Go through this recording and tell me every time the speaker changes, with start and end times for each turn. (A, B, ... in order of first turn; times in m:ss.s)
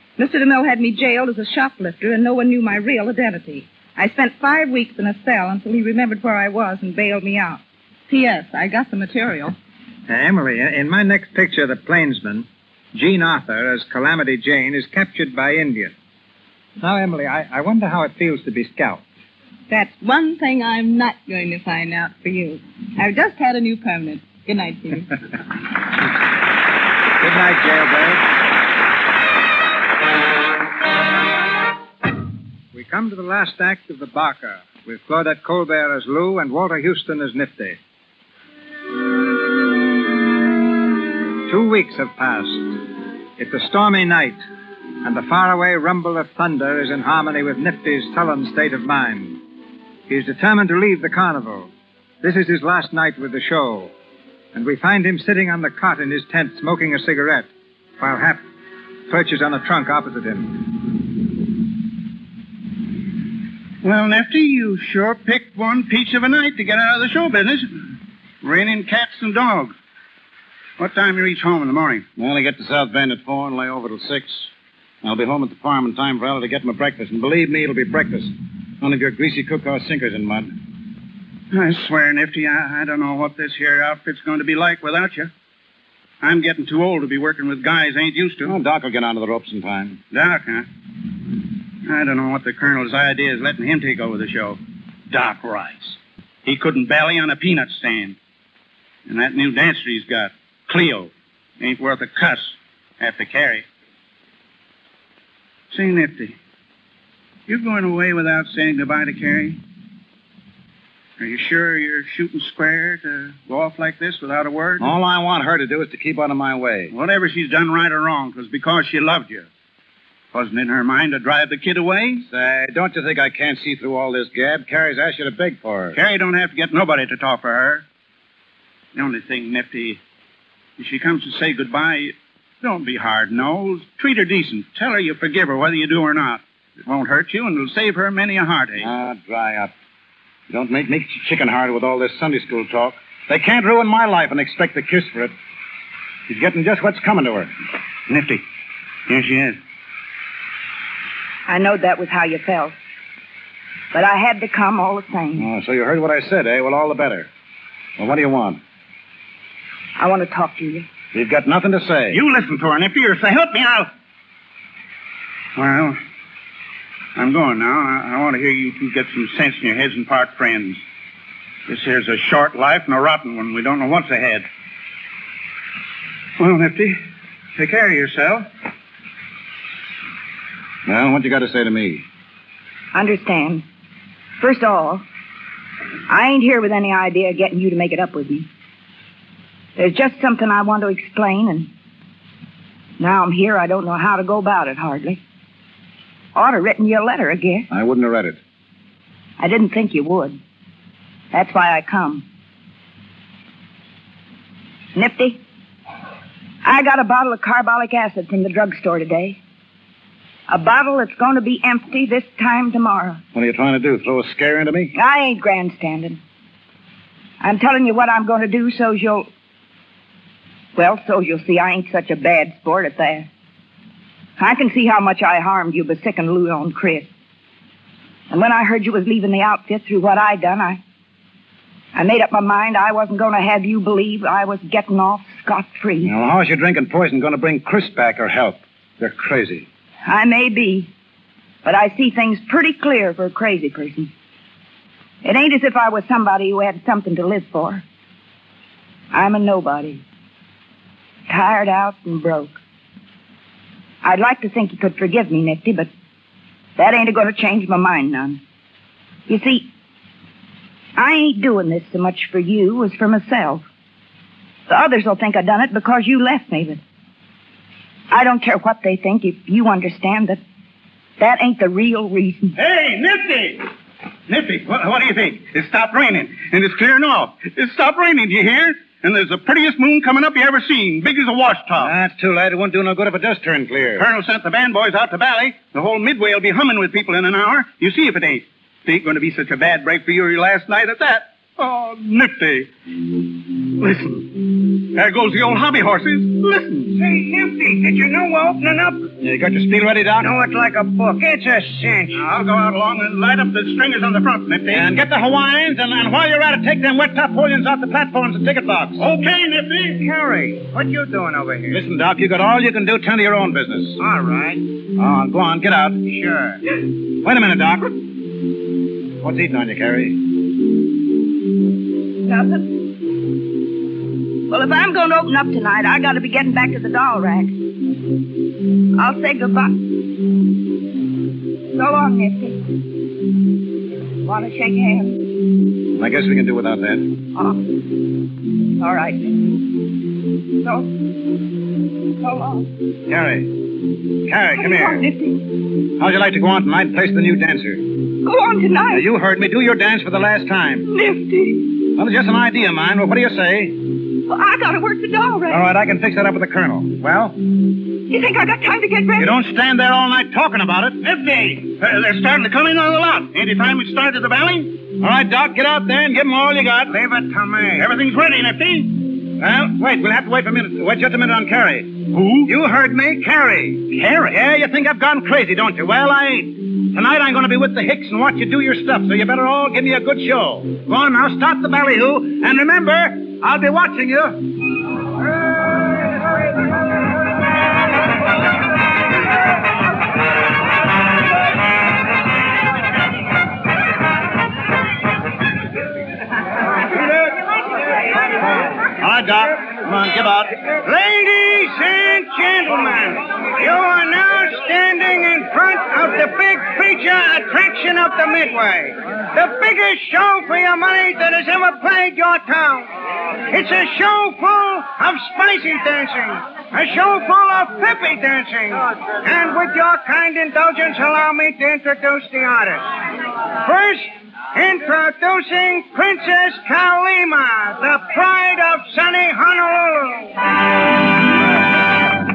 0:00.2-0:09.6 A
0:10.1-0:15.9 B
0:16.8-0:19.0 B
0:19.7-0:25.1 A
0:27.2-0:28.2 B
0:32.7-0:37.8 B
0:41.5-0:42.8 B
0:43.4-0:44.4 B
0:45.0-0:49.4 B
0:50.1-0:51.7 B
0:52.2-0:53.9 B
0:54.5-0:58.4 B
0:59.1-1:00.6 B
1:03.8-1:09.7 C
1:10.8-1:12.0 C
1:12.2-1:14.5 D
1:15.0-1:20.6 D
1:21.5-1:25.3 C
1:26.2-1:28.6 C
1:28.4-1:30.0 D
1:30.1-1:30.7 C
1:31.8-1:38.2 C
1:39.1-1:43.6 C
1:45.7-1:46.4 C
1:47.5-1:49.6 C
1:51.2-1:54.9 C
1:54.8-1:56.9 D
1:56.9-1:59.5 C
2:00.3-2:02.2 C
2:02.3-2:06.0 D
2:05.9-2:07.8 C
2:08.9-2:10.0 C
2:10.8-2:18.9 C
2:18.8-2:19.7 D
2:20.5-2:25.3 D
2:26.3-2:27.5 D
2:28.1-2:28.4 C
2:29.1-2:29.6 C
2:31.5-2:32.7 E
2:33.9-2:35.5 E
2:35.4-2:37.3 D
2:38.0-2:38.6 D
2:40.0-2:40.9 E
2:41.1-2:42.2 D
2:42.1-2:43.9 C
2:45.6-2:46.0 C
2:47.2-2:50.8 C
2:51.7-2:54.5 C
2:56.4-2:57.0 C
2:57.6-2:58.4 C
3:00.9-3:02.0 D
3:02.9-3:03.6 E
3:04.4-3:05.0 E
3:06.1-3:08.5 E
3:09.8-3:11.7 E
3:13.0-3:15.2 E
3:16.3-3:17.7 E
3:17.7-3:18.4 D
3:19.4-3:20.4 E
3:21.3-3:22.2 E
3:24.9-3:25.4 E
3:26.6-3:29.4 E
3:30.5-3:33.2 E
3:33.3-3:34.9 D
3:34.9-3:36.2 E
3:37.4-3:39.3 E
3:40.8-3:43.3 E
3:44.4-3:47.1 E
3:48.3-3:50.8 E
3:51.9-3:56.1 E
3:56.0-3:59.7 D
4:00.0-4:00.9 E
4:01.6-4:04.1 E
4:05.2-4:07.8 E
4:09.1-4:10.0 E
4:11.3-4:12.6 E
4:14.0-4:15.9 E
4:16.8-4:18.4 E
4:19.3-4:19.7 E
4:21.0-4:23.7 E
4:24.7-4:26.8 E
4:28.1-4:30.4 E
4:31.2-4:32.6 E
4:32.6-4:33.6 C
4:34.3-4:41.9 C
4:41.8-4:44.0 D
4:43.9-4:52.7 C
4:53.8-4:54.3 C
4:54.9-4:57.0 C
4:56.9-4:59.1 F
4:59.2-5:00.3 D
5:00.2-5:02.2 F
5:02.1-5:04.9 C
5:04.7-5:09.0 D
5:09.0-5:11.8 C
5:11.7-5:14.0 D
5:14.0-5:14.6 C
5:15.0-5:16.0 D
5:16.1-5:16.5 C
5:17.2-5:17.9 D
5:19.2-5:20.2 D
5:22.2-5:22.7 E
5:24.5-5:27.5 E
5:29.0-5:29.8 E
5:31.7-5:32.6 E
5:34.2-5:35.2 E
5:35.9-5:37.1 D
5:37.3-5:37.6 E
5:38.8-5:39.4 E
5:40.6-5:40.9 E
5:42.2-5:42.7 E
5:43.1-5:43.5 D
5:44.2-5:45.1 D
5:44.6-5:45.5 E
5:46.0-5:47.8 D
5:48.2-5:49.0 E
5:48.9-5:50.9 D
5:50.9-5:51.8 E
5:51.9-5:53.8 D
5:54.2-5:55.6 E
5:55.5-5:57.4 D
5:58.1-5:59.4 E
5:59.2-6:01.0 D
6:01.0-6:04.8 C
6:05.0-6:07.0 D
6:06.9-6:09.1 C
6:09.3-6:24.4 D
6:12.1-6:12.5 C
6:38.4-6:40.5 D
6:40.8-6:52.9 F
6:53.5-7:02.8 F
7:03.6-7:10.4 F